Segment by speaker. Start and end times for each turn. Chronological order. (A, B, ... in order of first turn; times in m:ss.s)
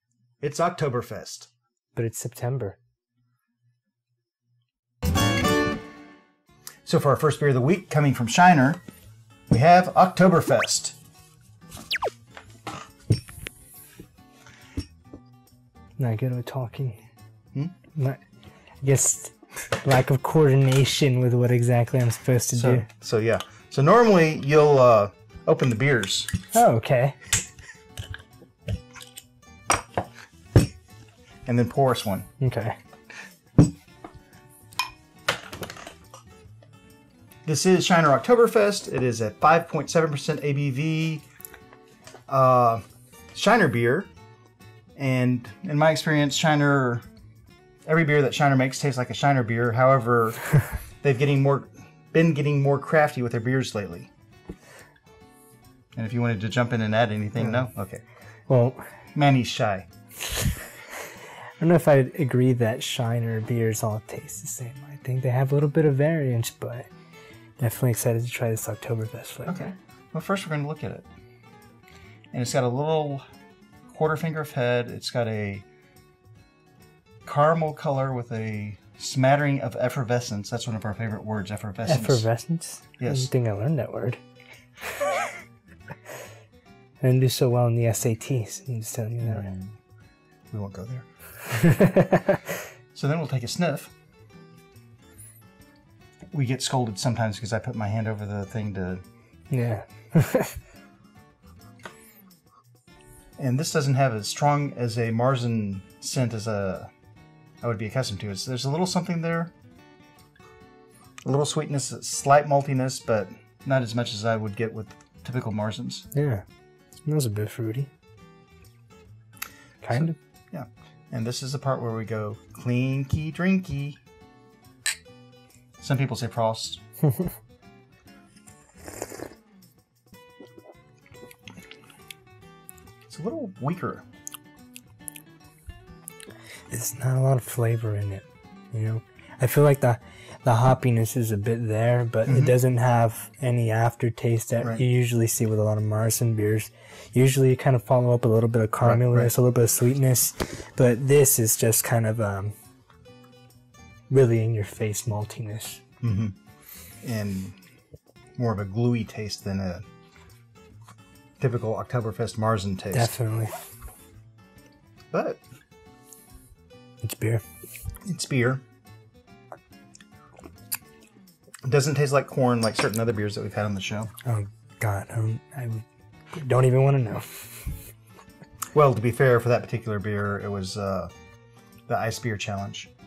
0:00.4-0:01.5 A
0:02.0-0:02.8 B
0:06.8-0:08.8 A
0:09.5-0:11.0 A
0:16.0-0:17.0 B
0:18.0-0:18.2 B
0:18.8-0:22.9 B
0:22.6-0:26.4 A
0:26.5-0:27.2 B
0:31.5-0:32.3 A
0:32.4-0:32.8 B
0:37.4-0:41.2 A
0:42.3-0:44.1 A
0:45.0-0:47.0 A
0:47.8-0:54.1 A
0:56.0-0:58.0 A
0:58.5-0:58.8 B
0:59.1-0:59.9 A
1:01.6-1:06.9 B
1:07.6-1:09.5 B
1:09.4-1:11.1 A
1:12.3-1:13.2 A
1:13.9-1:15.7 A
1:17.2-1:22.2 A
1:21.9-1:24.2 B
1:23.0-1:23.3 A
1:25.0-1:25.2 B
1:27.0-1:29.5 B
1:29.2-1:29.8 A
1:30.5-1:31.1 A
1:31.5-1:32.4 B
1:32.9-1:33.9 A
1:36.3-1:39.0 A
1:39.5-1:40.5 B
1:43.4-1:46.9 A
1:47.6-1:49.5 A
1:51.2-1:56.0 A
1:56.1-1:56.4 B
1:57.0-1:57.9 B
1:59.8-2:00.2 B
1:59.9-2:04.0 A
2:05.8-2:06.8 A
2:13.1-2:14.0 A
2:16.7-2:32.5 B
2:22.3-2:22.5 A
2:28.8-2:29.3 A
2:34.1-2:35.8 B
2:36.0-2:36.4 A
2:37.0-2:37.6 A
2:38.4-2:39.8 A
2:41.4-2:43.1 A
2:42.9-2:43.5 B
2:45.1-2:45.4 A
2:47.0-2:47.4 B
2:48.0-2:48.6 A
2:51.6-2:54.1 A
2:54.2-2:57.8 B
2:58.7-3:01.1 A
3:01.9-3:02.9 A